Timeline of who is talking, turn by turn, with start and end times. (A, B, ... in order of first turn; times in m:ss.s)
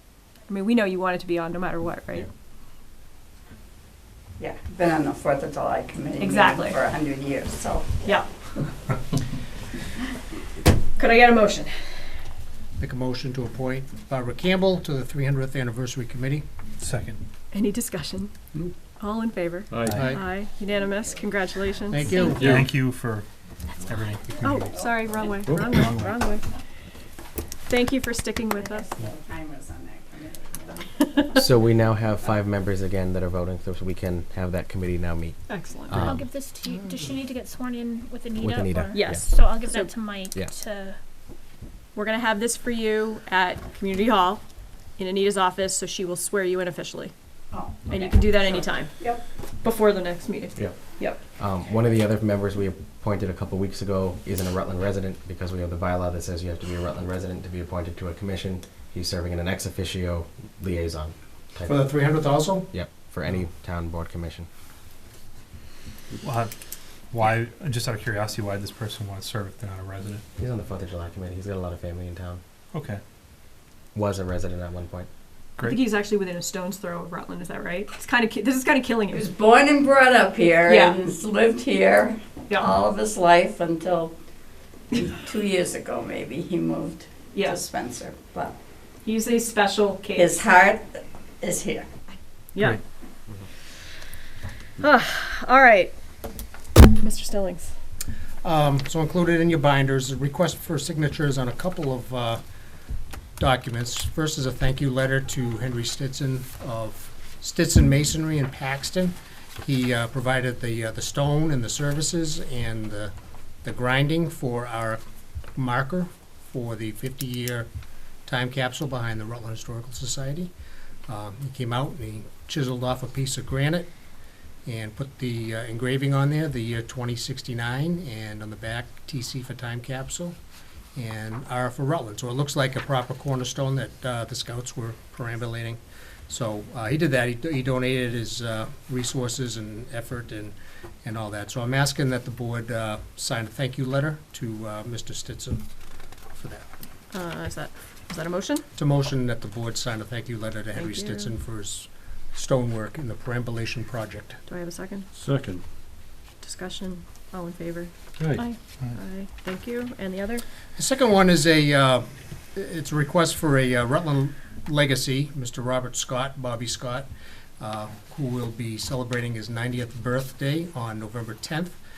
0:00.5-0:02.3 A
0:04.4-0:08.6 B
0:06.2-0:06.8 A
0:08.0-0:08.4 A
0:11.0-0:11.7 A
0:12.8-0:16.4 C
0:16.8-0:17.2 D
0:17.5-0:18.4 A
0:19.0-0:22.5 A
0:19.7-0:20.0 E
0:19.8-0:20.1 D
0:19.9-0:20.2 C
0:21.9-0:22.6 C
0:22.1-0:22.4 F
0:22.3-0:23.2 D
0:22.4-0:22.9 E
0:23.8-0:24.9 D
0:24.4-0:26.5 A
0:24.8-0:25.1 B
0:25.4-0:25.8 E
0:25.6-0:26.2 D
0:27.7-0:28.9 A
0:28.6-0:30.9 B
0:31.3-0:36.3 G
0:35.5-0:36.0 A
0:36.0-0:41.0 F
0:38.4-0:39.3 G
0:38.9-0:39.9 A
0:41.9-0:44.4 A
0:45.0-0:47.1 A
0:47.5-0:49.2 B
0:47.9-0:51.2 A
0:50.6-1:02.0 G
1:01.6-1:02.7 C
1:02.7-1:04.5 G
1:06.2-1:06.5 D
1:07.1-1:10.2 D
1:10.4-1:12.4 G
1:12.7-1:13.0 D
1:13.9-1:15.1 G
1:15.6-1:19.3 A
1:19.1-1:24.1 B
1:20.6-1:21.0 A
1:22.5-1:22.7 A
1:24.9-1:28.5 B
1:27.3-1:27.6 A
1:29.0-1:30.3 A
1:30.1-1:31.9 B
1:32.5-1:32.8 A
1:34.8-1:35.9 A
1:37.0-1:37.7 A
1:38.4-1:42.4 C
1:43.4-1:53.1 C
1:53.6-1:55.0 C
1:55.5-1:57.7 C
1:58.2-2:00.5 C
2:01.1-2:03.9 C
2:04.6-2:10.4 C
2:11.0-2:25.6 C
2:26.3-2:26.7 C
2:27.1-2:28.6 A
2:28.8-2:34.4 C
2:30.7-2:31.4 A
2:34.5-2:35.1 A
2:35.1-2:35.7 E
2:36.4-2:40.4 A
2:38.2-2:38.4 E
2:40.8-2:47.1 C
2:47.6-2:51.8 C